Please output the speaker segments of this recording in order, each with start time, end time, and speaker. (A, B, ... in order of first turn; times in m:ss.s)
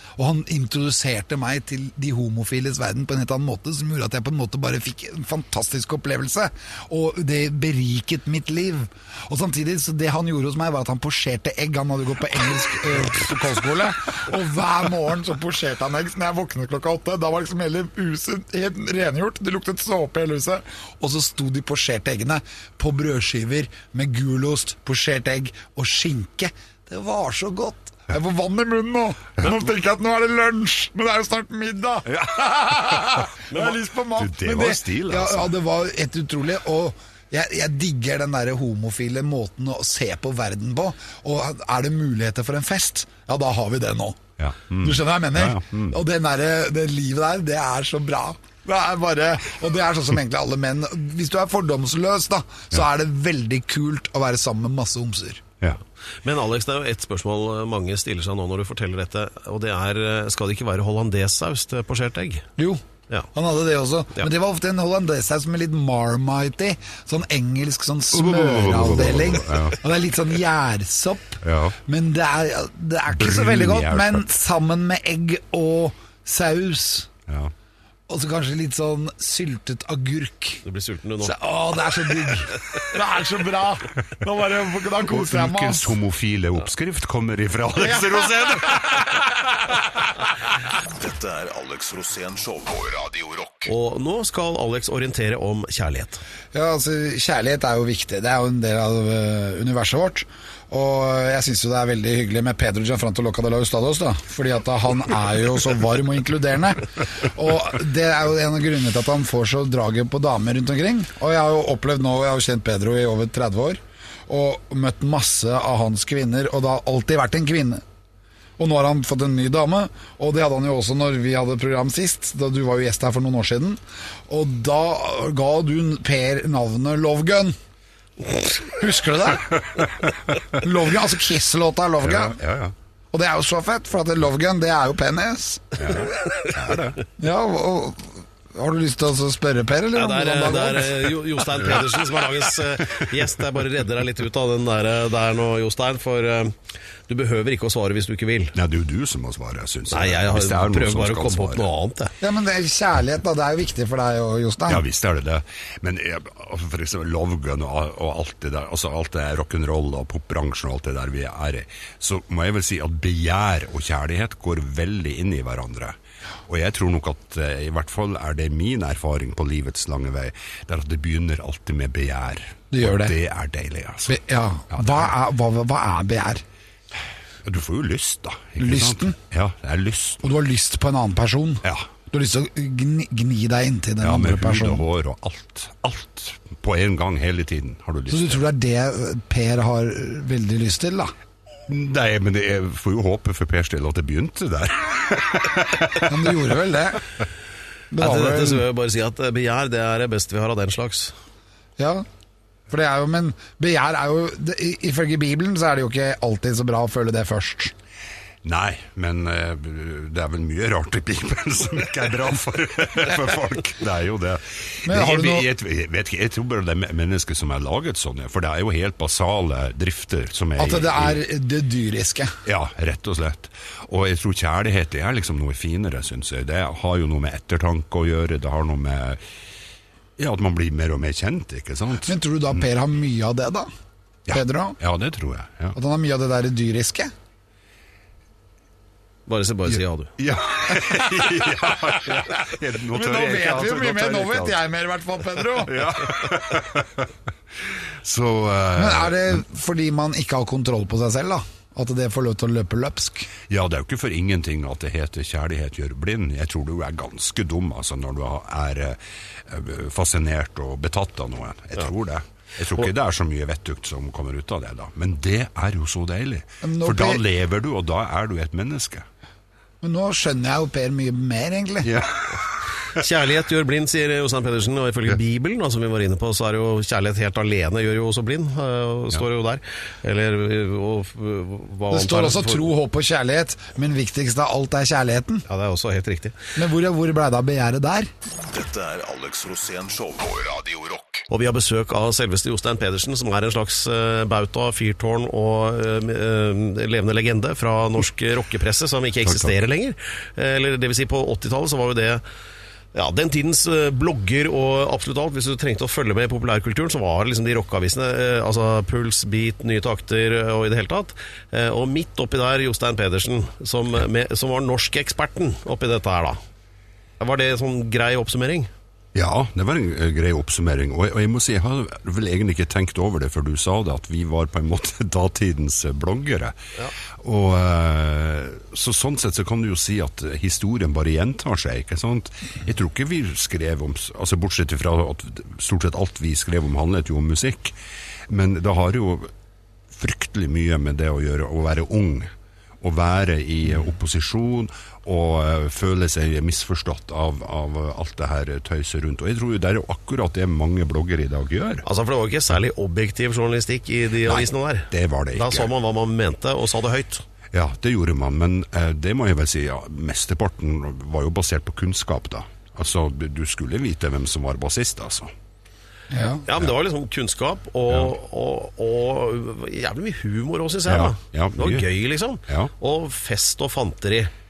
0:00.2-0:44.2 A
0:32.1-0:35.6 B
0:44.4-0:46.0 B
0:44.8-0:55.4 A
0:56.2-1:02.5 C
1:02.6-1:17.1 A
1:08.1-1:09.8 B
1:11.4-1:11.8 B
1:13.1-1:14.3 B
1:17.3-1:17.5 B
1:18.1-1:20.6 A
1:20.6-1:21.4 C
1:21.2-1:26.0 A
1:25.0-1:29.7 B
1:27.8-1:29.2 A
1:30.7-1:33.7 D
1:33.7-1:36.2 C
1:36.5-1:57.8 A
1:58.6-2:07.6 A
2:08.6-2:09.5 A
2:09.8-2:10.4 B
2:10.6-2:12.4 A
2:12.0-2:12.8 B
2:13.1-2:15.8 A
2:15.8-2:17.0 B
2:17.2-2:21.2 A
2:20.0-2:26.6 C
2:27.1-2:28.6 C
2:28.6-2:31.7 B
2:29.9-2:32.1 C
2:32.2-2:34.8 A
2:34.7-2:46.0 B
2:46.5-2:54.2 B
2:52.7-2:53.2 A
2:54.1-2:56.4 A
2:54.7-2:55.1 B
2:57.4-3:00.3 B
2:58.6-2:59.2 A
3:00.2-3:04.8 A
3:01.6-3:01.9 B
3:04.0-3:08.4 B
3:08.1-3:11.1 A
3:11.7-3:16.4 B
3:16.0-3:17.0 A
3:17.9-3:18.6 A
3:18.0-3:21.1 C
3:21.8-3:22.0 A
3:22.7-3:27.7 A
3:28.4-3:41.2 B
3:34.8-3:35.5 A
3:40.6-3:42.4 A
3:42.5-3:49.2 B
3:50.2-3:52.1 B
3:52.1-3:53.7 A
3:54.3-3:55.8 B
3:54.3-3:54.8 A
3:55.8-3:57.1 A
3:59.3-4:00.1 C
4:00.2-4:04.6 B
4:00.7-4:02.2 A
4:02.9-4:05.9 A
4:05.5-4:09.4 B
4:08.8-4:13.3 A
4:13.5-4:29.1 B
4:26.6-4:27.2 A
4:29.8-4:31.9 A
4:31.8-4:33.0 B
4:32.9-4:42.7 C
4:41.9-4:45.4 A
4:45.5-4:46.4 C
4:46.6-4:48.1 A
4:48.3-4:51.3 D
4:51.3-5:02.2 C
4:59.2-4:59.5 B
5:02.9-5:16.4 C
5:17.2-5:18.7 C
5:19.2-5:26.6 B
5:27.2-5:37.8 B
5:38.3-5:39.3 B
5:39.9-5:51.8 B
5:51.8-5:57.2 C
5:54.3-5:55.7 B
5:57.5-6:05.3 B
6:06.1-6:06.4 A
6:06.5-6:14.3 C
6:10.9-6:11.9 B